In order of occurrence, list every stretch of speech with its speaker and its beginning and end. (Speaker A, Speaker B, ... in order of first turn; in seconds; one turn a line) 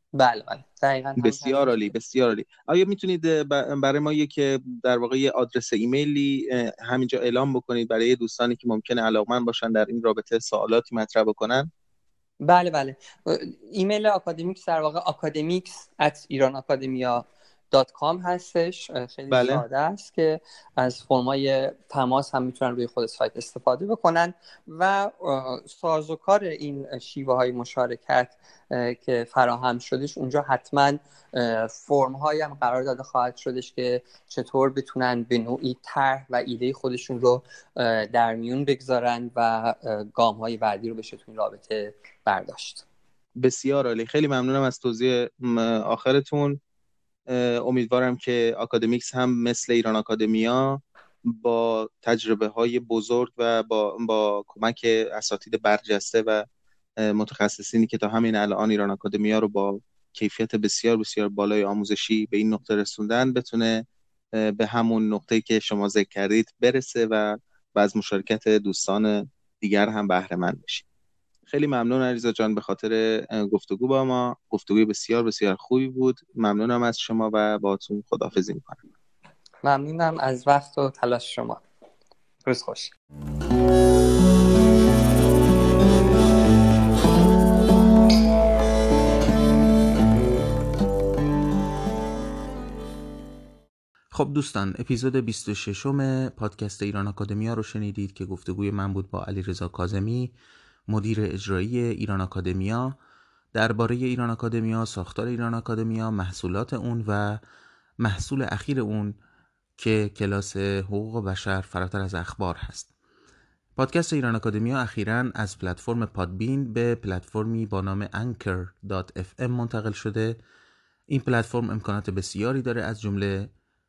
Speaker A: 0.1-1.8
Speaker B: 1.2-11.7
Speaker A: 12.4-42.8
Speaker B: 19.3-19.6
Speaker B: 43.4-46.6
Speaker B: 47.3-56.4
Speaker B: 57.0-63.8
Speaker B: 64.4-70.8
Speaker B: 71.5-78.8
Speaker A: 79.6-81.6
Speaker A: 82.5-82.9
Speaker C: 94.1-100.3
Speaker C: 100.9-103.0
Speaker C: 103.5-107.4
Speaker C: 108.0-109.2
Speaker C: 109.8-112.9
Speaker C: 113.8-120.4
Speaker C: 121.1-123.5